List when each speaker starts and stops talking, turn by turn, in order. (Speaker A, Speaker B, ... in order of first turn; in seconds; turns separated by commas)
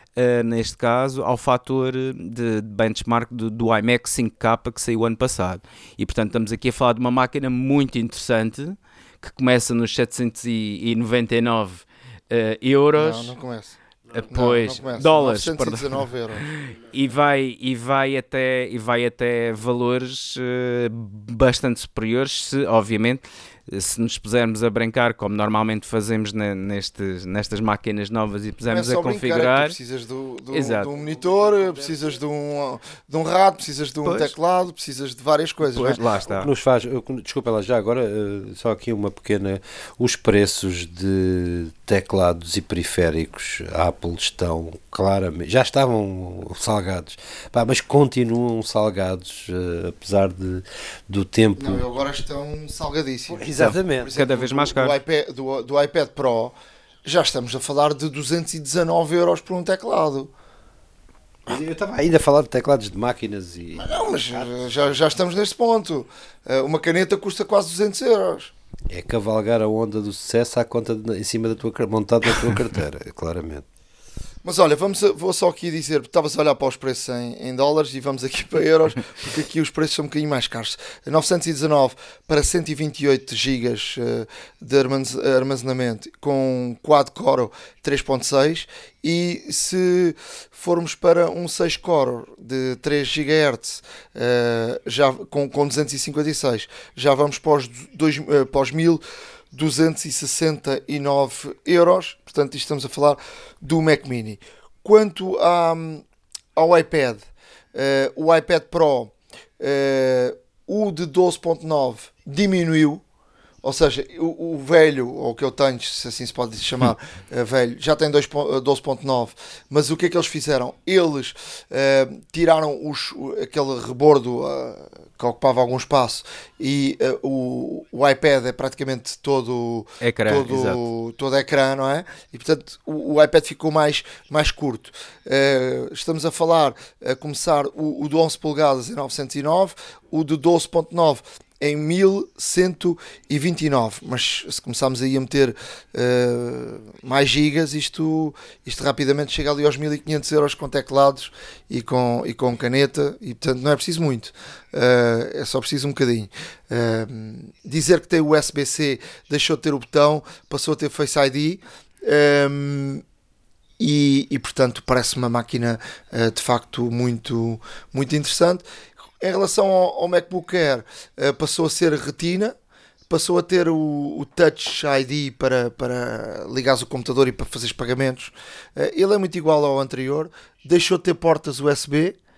Speaker A: 0.2-13.3, Speaker B: 13.0-16.5, Speaker A: 14.1-29.8, Speaker B: 28.7-36.0, Speaker A: 30.5-30.9, Speaker A: 34.0-34.3, Speaker A: 35.6-36.5, Speaker C: 36.3-51.9, Speaker B: 51.6-56.5, Speaker C: 53.3-54.1, Speaker A: 53.6-55.0, Speaker B: 57.1-60.3, Speaker C: 61.5-64.6, Speaker B: 63.8-68.5, Speaker C: 68.9-73.7, Speaker B: 74.4-99.0, Speaker B: 99.5-106.0, Speaker B: 106.6-107.2, Speaker B: 107.7-113.0, Speaker B: 113.6-163.0, Speaker A: 130.0-130.9, Speaker B: 163.8-168.6, Speaker B: 169.2-172.6, Speaker B: 173.1-182.2